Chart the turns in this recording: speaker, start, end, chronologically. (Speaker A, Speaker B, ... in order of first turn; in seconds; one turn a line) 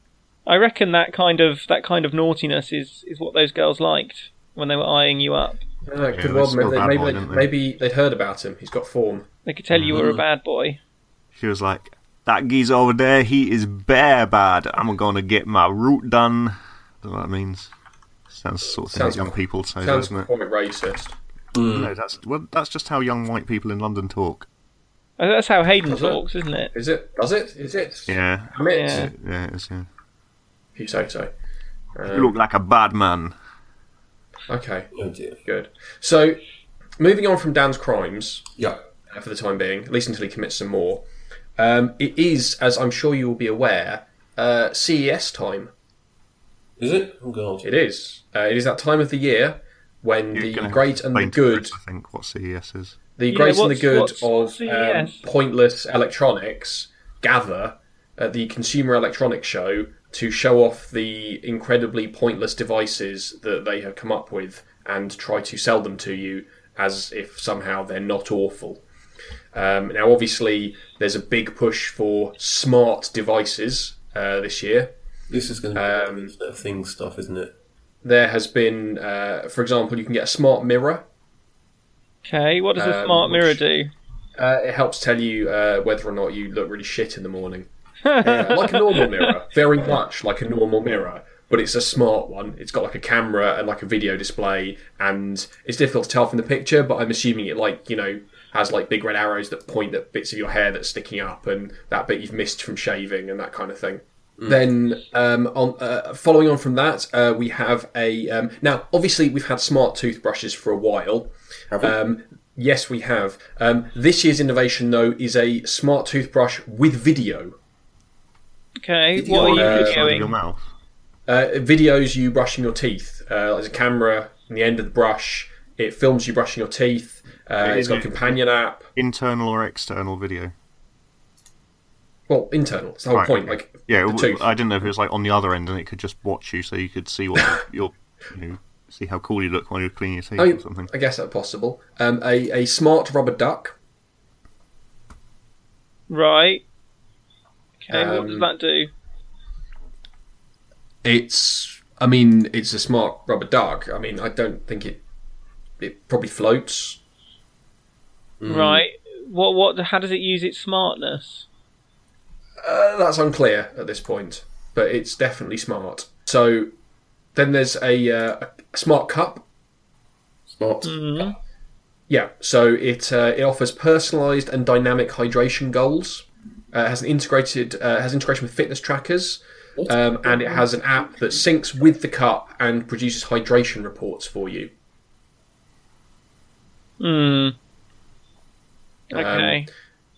Speaker A: 0.5-5.6
Speaker B: 5.8-9.2
Speaker C: 6.1-7.5
Speaker A: 9.4-10.8
Speaker C: 9.7-10.0
Speaker D: 9.9-10.2
Speaker C: 11.3-17.7
Speaker C: 18.3-20.3
Speaker B: 18.9-21.1
Speaker D: 21.5-21.9
Speaker C: 21.7-24.5
Speaker A: 25.2-26.7
Speaker B: 25.8-26.2
Speaker B: 26.7-29.1
Speaker C: 28.1-29.9
Speaker A: 28.7-29.1
Speaker B: 30.8-31.3
Speaker B: 31.9-32.3
Speaker C: 32.1-33.3
Speaker B: 34.5-34.9
Speaker D: 34.9-35.4
Speaker B: 35.4-36.4
Speaker B: 37.0-38.5
Speaker B: 39.1-41.0
Speaker B: 41.6-45.7
Speaker D: 46.8-47.6
Speaker B: 47.6-51.8
Speaker C: 50.3-53.0
Speaker B: 53.2-68.8
Speaker A: 53.3-55.2
Speaker B: 69.5-74.9
Speaker D: 75.3-77.5
Speaker B: 75.7-76.3
Speaker B: 78.0-81.0
Speaker A: 82.2-83.9
Speaker B: 82.8-83.6
Speaker B: 84.4-87.7
Speaker A: 88.0-89.3
Speaker B: 88.2-117.5
Speaker A: 118.8-120.3
Speaker D: 119.1-119.7
Speaker C: 119.4-120.6
Speaker B: 119.5-120.1
Speaker B: 121.3-128.9
Speaker C: 127.6-128.3
Speaker C: 128.9-130.5
Speaker B: 132.3-134.4
Speaker C: 133.1-140.9
Speaker B: 140.4-143.8
Speaker A: 146.1-146.6
Speaker A: 147.8-148.9
Speaker B: 147.9-148.5
Speaker B: 151.0-155.0
Speaker B: 155.8-157.0
Speaker D: 158.4-158.8
Speaker A: 158.4-161.4
Speaker B: 162.6-166.7
Speaker B: 167.3-169.4
Speaker D: 170.5-170.9
Speaker A: 170.8-171.3
Speaker B: 172.1-184.7
Speaker D: 179.8-180.6
Speaker A: 187.0-187.5
Speaker B: 189.1-189.7
Speaker A: 189.1-189.7